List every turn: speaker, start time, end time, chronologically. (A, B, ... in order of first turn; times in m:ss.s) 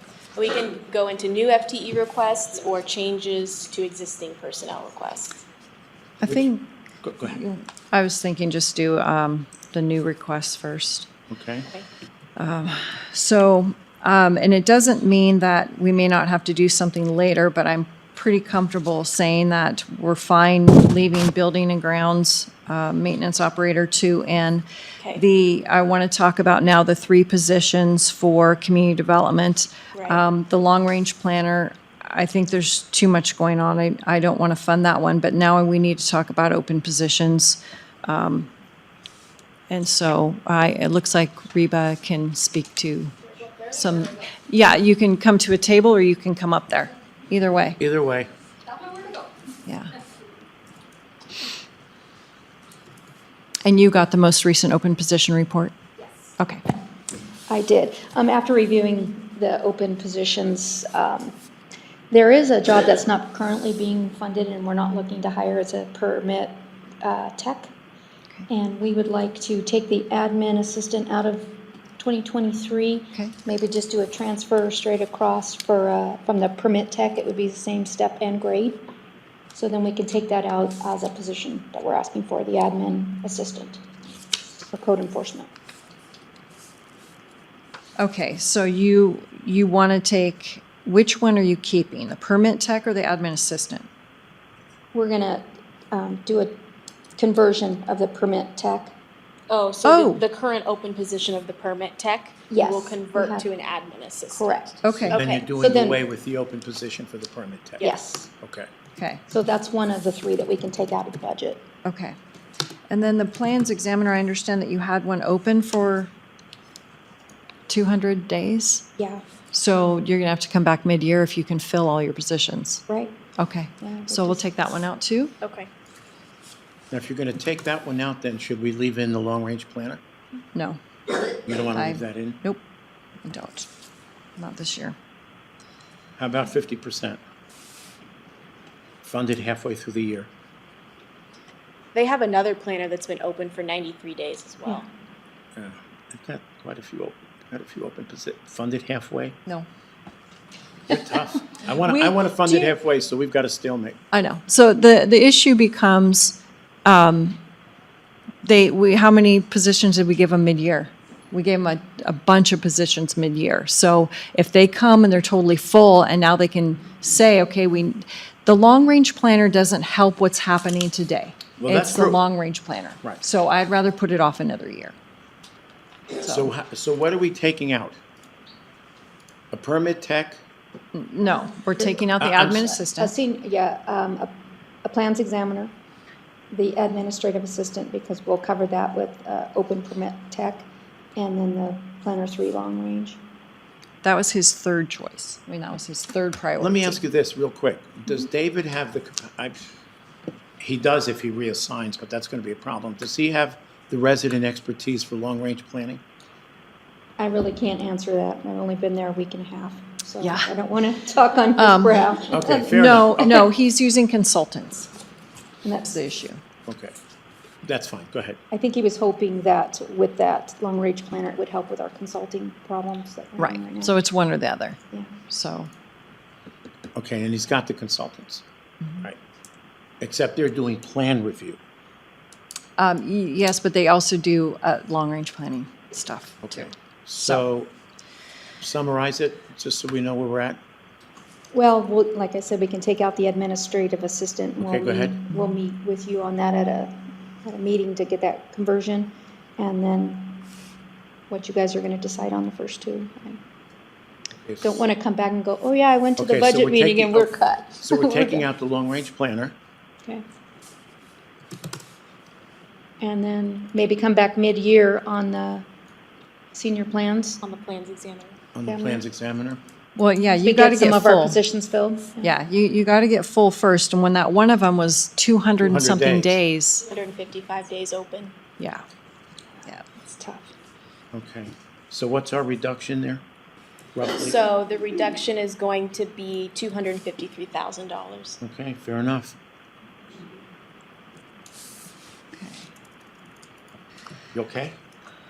0:00.4-0:05.4 A
0:06.2-0:06.7 B
0:07.0-0:07.4 C
0:07.3-0:11.1 B
0:11.3-0:11.7 C
0:12.4-0:38.5 B
0:29.9-0:30.2 A
0:39.7-0:47.8 B
0:47.8-0:48.3 C
0:49.6-0:49.9 B
0:53.6-0:55.8 B
0:57.5-1:01.3 D
1:02.1-1:07.7 D
1:08.5-1:18.8 D
1:19.5-1:23.8 D
1:24.7-1:25.5 D
1:28.0-1:33.9 B
1:34.9-1:36.6 D
1:37.2-1:38.9 D
1:39.5-1:45.5 A
1:39.8-1:40.2 B
1:42.5-1:43.5 D
1:44.3-1:44.8 D
1:44.8-1:45.2 B
1:44.9-1:47.9 C
1:45.5-1:46.0 D
1:47.8-1:48.3 D
1:48.4-1:48.7 C
1:49.0-1:49.2 B
1:49.3-1:51.6 D
1:51.8-1:52.2 B
1:52.9-1:56.1 B
1:57.7-1:58.9 B
1:59.0-1:59.2 D
1:59.5-2:02.8 B
2:02.9-2:03.2 D
2:03.4-2:05.4 B
2:03.8-2:04.8 D
2:05.4-2:05.7 A
2:06.9-2:10.0 C
2:10.5-2:10.8 B
2:11.5-2:12.4 C
2:11.7-2:12.6 B
2:13.2-2:13.7 B
2:14.4-2:15.0 B
2:16.2-2:17.2 C
2:19.0-2:20.3 C
2:21.9-2:24.9 A
2:25.6-2:29.4 C
2:30.9-2:34.0 C
2:31.7-2:32.7 B
2:34.1-2:37.4 B
2:38.4-2:55.0 B
2:51.6-2:52.2 C
2:56.2-2:58.0 C
2:56.2-2:56.5 B
2:59.5-3:00.4 C
3:00.9-3:03.1 B
3:02.2-3:02.8 C
3:03.0-3:05.7 D
3:06.5-3:13.2 D
3:14.0-3:17.0 B
3:16.6-3:19.7 C
3:20.6-3:26.0 C
3:27.2-3:32.7 D
3:30.2-3:30.5 B
3:31.6-3:34.9 B
3:32.3-3:33.5 C
3:35.7-3:36.4 B
3:36.7-3:37.0 C
3:37.6-3:38.4 C
3:38.5-3:43.9 D
3:43.4-3:45.7 B
3:47.0-3:48.4 C
3:50.0-3:51.6 C
3:52.8-3:57.4 B
3:56.4-3:57.7 C
3:58.6-4:00.6 C
4:01.5-4:10.5 D
4:04.6-4:05.2 C
4:11.3-4:13.4 D
4:14.4-4:14.8 C
4:14.6-4:18.4 D
4:16.2-4:19.6 C
4:23.0-4:25.6 D
4:26.5-4:27.4 D
4:27.4-4:28.4 A
4:28.5-4:29.6 C
4:28.6-4:29.0 D
4:30.0-4:31.4 B
4:30.4-4:32.3 D
4:32.2-4:36.9 B
4:35.6-4:36.4 C
4:36.9-4:38.4 A
4:38.6-4:38.8 B
4:40.0-4:40.5 D
4:41.1-4:43.2 C
4:44.0-4:44.4 C
4:44.2-4:48.4 A
4:48.4-4:49.4 C
4:52.3-4:52.7 B
4:54.3-4:54.8 C